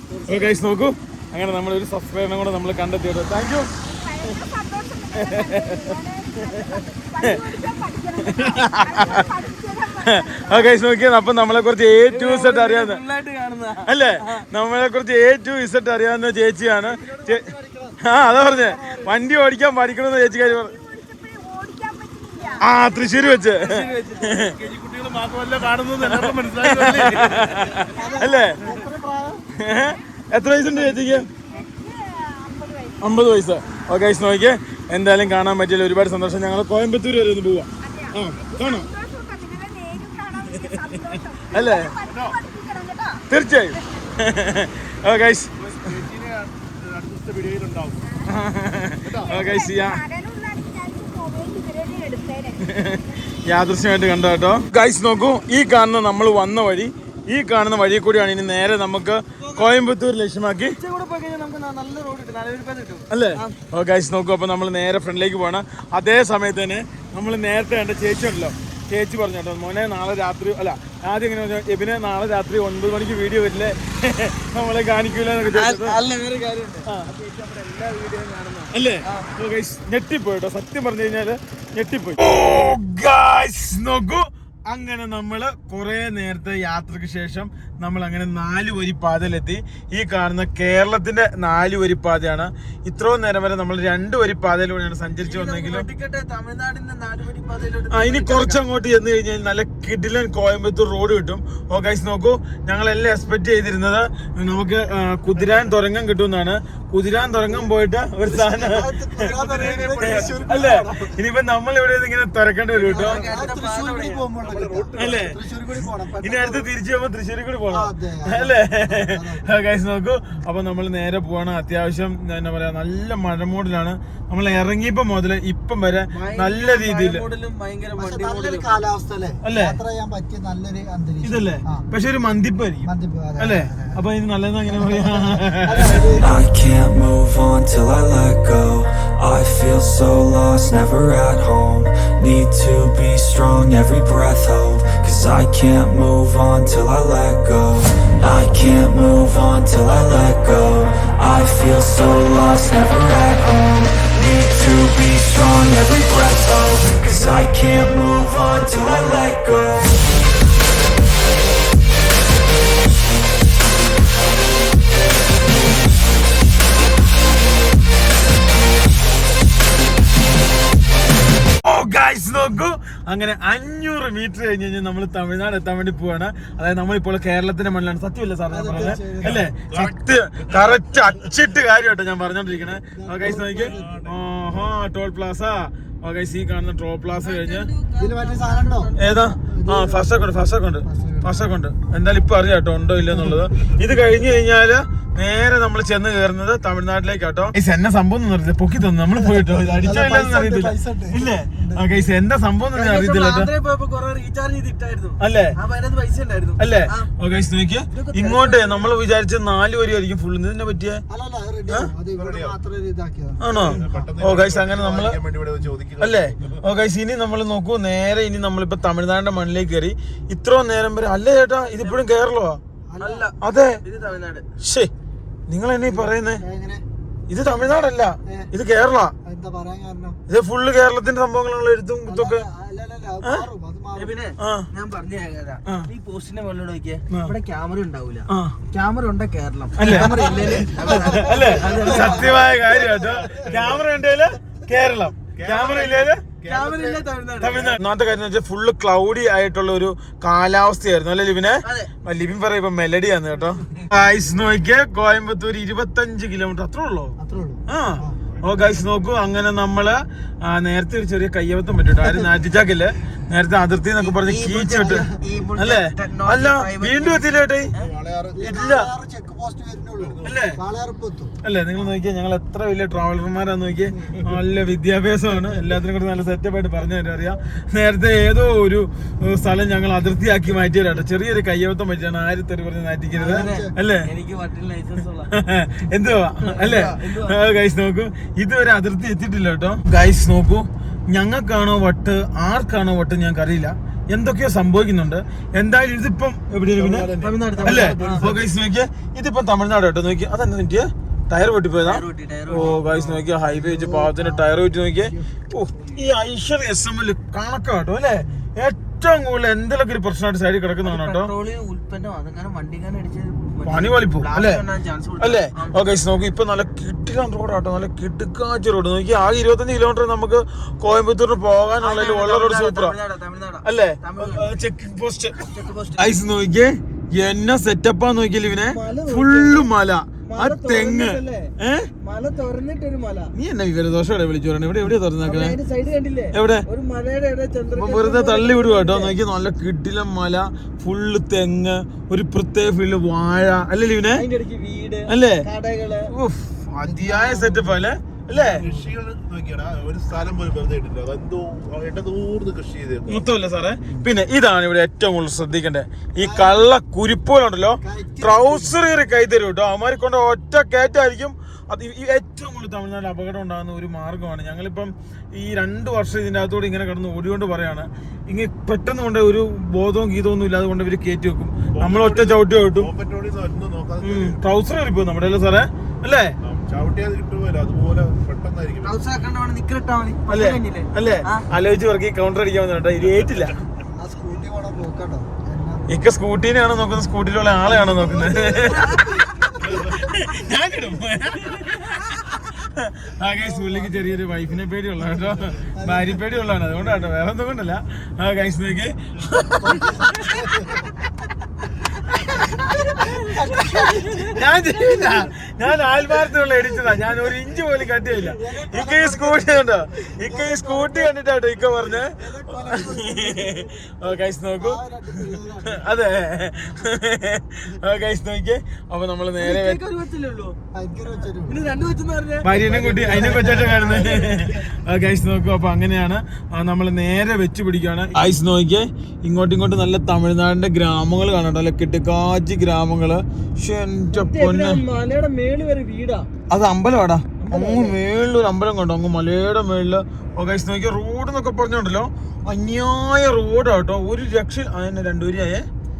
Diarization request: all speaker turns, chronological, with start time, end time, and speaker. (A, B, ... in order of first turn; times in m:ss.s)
0:00.1-0:00.6 A
0:00.3-0:03.7 B
0:03.8-0:10.9 C
0:05.1-0:07.4 B
0:08.3-0:09.3 B
0:10.0-0:13.0 B
0:12.1-0:14.4 D
0:13.9-0:17.4 B
0:16.6-0:19.2 A
0:18.0-0:20.7 B
0:20.2-0:23.6 C
0:22.6-0:24.5 B
0:23.5-0:24.6 D
0:24.5-0:27.9 E
0:26.0-0:28.8 B
0:27.9-0:29.4 A
0:27.9-0:28.6 C
0:29.6-0:31.3 B
0:30.7-0:31.2 A
0:31.4-0:33.4 C
0:33.0-0:38.9 B
0:37.8-0:44.3 C
0:40.5-0:41.9 B
0:42.0-0:42.4 E
0:43.3-0:45.5 B
0:45.6-0:48.0 E
0:48.0-0:48.5 C
0:48.3-0:50.0 B
0:49.0-0:49.5 E
0:49.2-0:52.7 C
0:52.6-1:00.7 B
0:59.4-0:59.8 D
1:00.8-1:03.5 D
1:03.1-1:16.0 B
1:15.5-1:19.3 D
1:18.7-1:35.8 B
1:35.2-1:38.6 D
1:37.9-1:53.2 B
1:48.2-1:51.2 A
1:49.4-1:50.2 D
1:49.6-1:50.1 E
1:52.7-1:54.2 D
1:52.9-1:56.7 A
1:54.4-1:55.3 E
1:55.0-2:07.2 B
1:57.7-1:59.5 A
2:06.1-2:08.8 D
2:08.0-2:11.8 A
2:09.4-2:09.8 B
2:11.2-2:16.1 B
2:12.8-2:14.0 A
2:14.8-2:16.4 A
2:16.2-2:40.1 F
2:51.6-3:07.7 B
2:58.5-2:59.5 A
2:59.4-3:00.8 E
3:02.7-3:04.1 A
3:03.2-3:04.8 E
3:07.2-3:09.4 D
3:08.0-3:10.2 A
3:09.0-3:23.5 B
3:10.8-3:11.5 A
3:13.1-3:13.4 A
3:19.8-3:21.9 A
3:22.7-3:27.1 D
3:25.2-3:25.5 B
3:26.6-3:31.0 B
3:27.9-3:28.9 D
3:31.1-3:34.0 A
3:32.1-3:32.6 E
3:33.4-3:35.2 B
3:33.5-3:36.6 E
3:36.0-3:42.6 B
3:42.9-3:43.3 A
3:43.0-3:44.4 D
3:43.4-3:43.8 B
3:44.6-3:44.9 B
3:45.5-3:46.4 B
3:45.8-3:46.8 A
3:47.3-3:49.1 B
3:49.2-3:50.2 A
3:50.3-3:52.4 B
3:52.0-3:54.1 A
3:54.0-4:02.3 D
3:54.4-3:54.6 B
3:58.3-3:58.5 B
3:59.8-4:06.2 B
3:59.8-4:02.3 A
4:01.6-4:03.8 E
4:05.3-4:07.0 E
4:06.5-4:07.7 D
4:07.4-4:17.2 B
4:11.6-4:11.9 D
4:17.2-4:18.2 A
4:17.7-4:27.7 B
4:24.0-4:27.9 D
4:27.8-4:28.5 E
4:28.3-4:31.3 A
4:28.5-4:28.9 B
4:30.0-4:30.5 E
4:30.2-4:30.6 B
4:31.4-4:44.1 B
4:43.1-4:43.7 A
4:43.2-4:45.3 D
4:45.3-4:57.1 B
4:46.4-4:47.3 D
4:56.7-4:58.5 E
4:57.2-4:58.2 D
4:57.6-5:11.3 B
5:01.8-5:02.8 D
5:02.6-5:05.4 A
5:08.2-5:08.5 A
5:10.8-5:15.8 D
5:13.6-5:14.6 B
5:15.2-5:22.9 B
5:21.8-5:24.6 D
5:23.6-5:25.4 B
5:25.4-5:26.2 D
5:26.0-5:31.9 B
5:28.6-5:29.7 D
5:30.2-5:33.3 D
5:33.3-5:35.6 B
5:35.2-5:39.2 D
5:36.3-5:36.6 B
5:37.7-5:44.2 B
5:44.1-5:46.1 D
5:45.1-5:45.4 B
5:46.1-5:48.6 B
5:46.8-5:47.8 A
5:48.3-5:53.3 E
5:48.5-5:48.9 A
5:53.1-6:12.9 B
5:56.2-5:56.7 A
5:57.8-5:58.8 A
6:11.7-6:14.4 E
6:14.0-6:16.3 B
6:16.4-6:19.0 E
6:18.8-6:21.4 D
6:20.3-6:23.5 B
6:23.0-6:23.6 E
6:23.9-6:26.0 A
6:25.9-6:40.0 B
6:27.6-6:28.9 A
6:28.7-6:29.2 D
6:33.4-6:34.1 A
6:35.1-6:36.1 A
6:39.6-6:40.8 A
6:42.1-6:45.3 A
6:43.9-6:59.8 B
6:48.1-6:51.1 A
6:51.9-6:55.9 A
6:59.4-7:00.5 D
7:00.7-7:01.8 A
7:01.5-7:02.5 D
7:02.4-7:14.8 B
7:02.5-7:04.5 A
7:03.0-7:04.3 D
7:14.1-7:16.3 D
7:16.5-7:25.6 B
7:17.4-7:18.0 D